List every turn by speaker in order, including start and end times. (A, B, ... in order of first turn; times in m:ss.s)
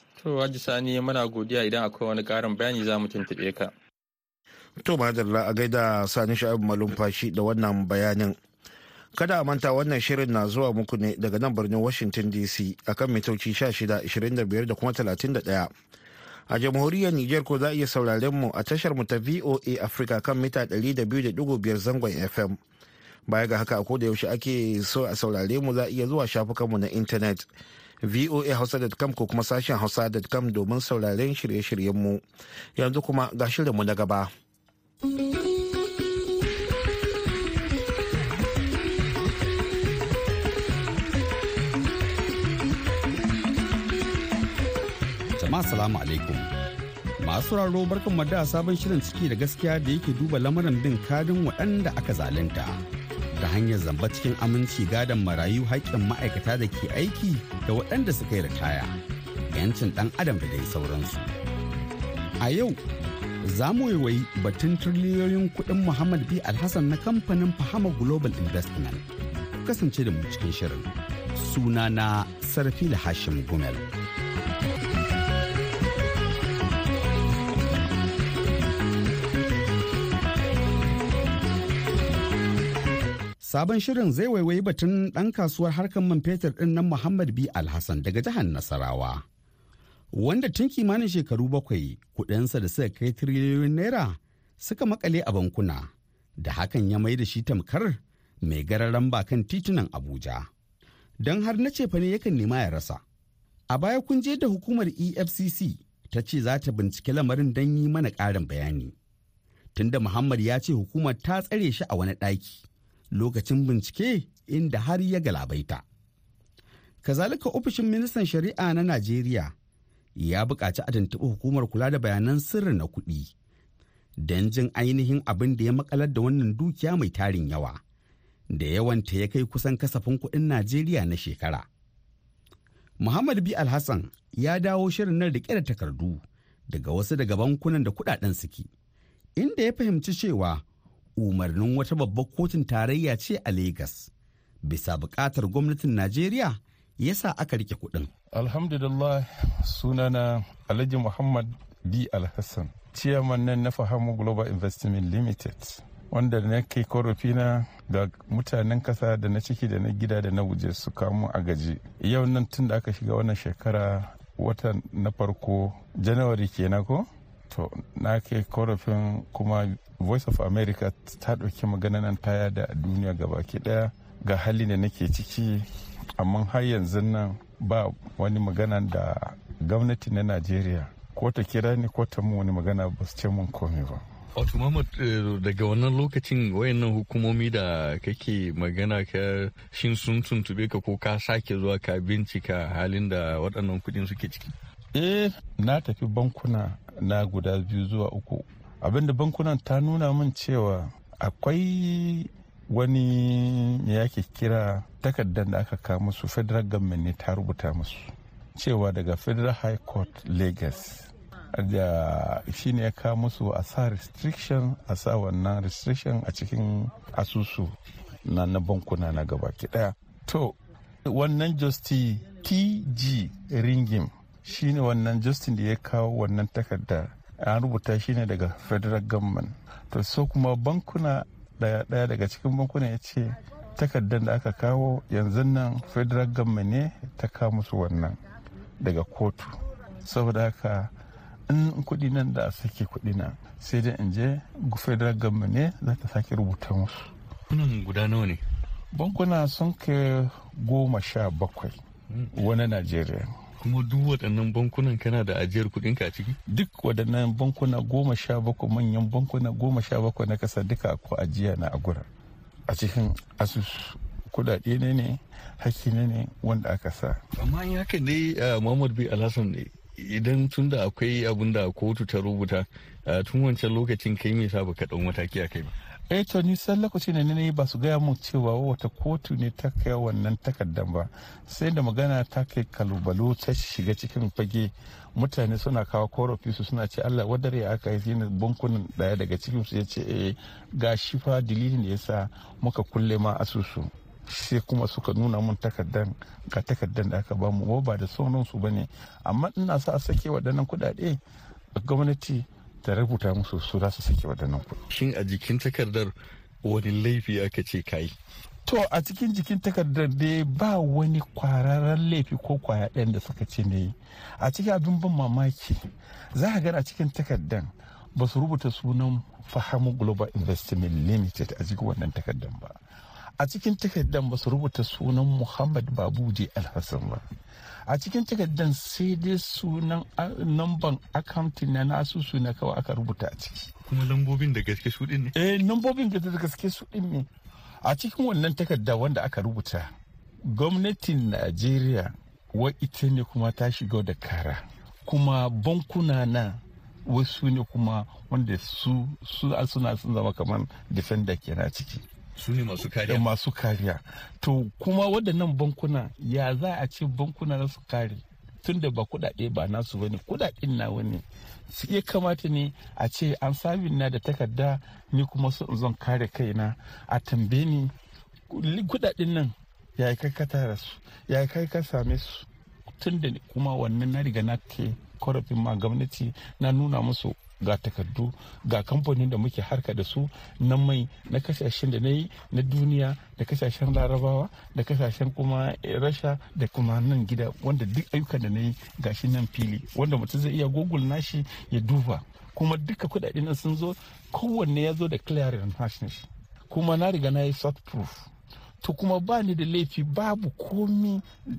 0:00.2-0:03.7 A
0:04.8-0:08.4 B
0:09.2-0:15.7 B
0:16.5-0:22.6 B
0:23.3-0:27.5 B
0:28.0-0:32.2 B
0:32.8-0:34.3 B
0:45.4-0:46.5 C
0:47.2-0:52.8 C
0:53.4-0:59.0 C
0:59.5-1:01.3 C
1:02.4-1:02.8 C
1:03.4-1:09.0 C
1:09.6-1:13.9 C
1:23.4-1:29.2 C
1:30.1-1:35.9 C
1:36.4-1:40.5 C
1:41.2-1:43.0 C
1:43.7-1:48.9 C
1:49.7-1:52.6 C
1:53.1-1:55.8 C
1:57.0-1:59.5 C
2:00.2-2:03.3 C
2:04.2-2:07.8 C
2:08.5-2:11.7 C
2:13.0-2:18.7 C
2:19.4-2:20.6 C
2:21.2-2:24.1 C
2:24.6-2:28.1 C
2:28.3-2:55.6 D
2:56.2-3:04.0 D
3:04.3-3:14.5 E
3:14.9-3:40.5 D
3:41.0-3:58.2 D
3:58.8-4:00.9 D
4:01.5-4:07.1 D
4:07.5-4:08.4 E
4:08.9-4:11.8 D
4:12.3-4:13.3 D
4:13.6-4:16.4 E
4:16.5-4:22.0 D
4:22.7-4:27.2 D
4:27.4-4:35.7 E
4:36.1-5:01.2 D
5:01.8-5:04.8 D
5:04.9-5:06.1 E
5:06.6-5:08.1 E
5:08.6-5:15.8 D
5:16.3-5:22.8 D
5:23.4-5:27.2 D
5:27.9-5:33.7 D
5:33.9-5:35.3 E
5:35.4-5:37.3 D
5:37.8-5:39.9 D
5:40.5-5:52.0 D
5:52.4-5:53.2 E
5:53.0-6:07.9 D
6:08.5-6:12.5 D
6:13.0-6:38.3 D
6:38.8-6:41.2 D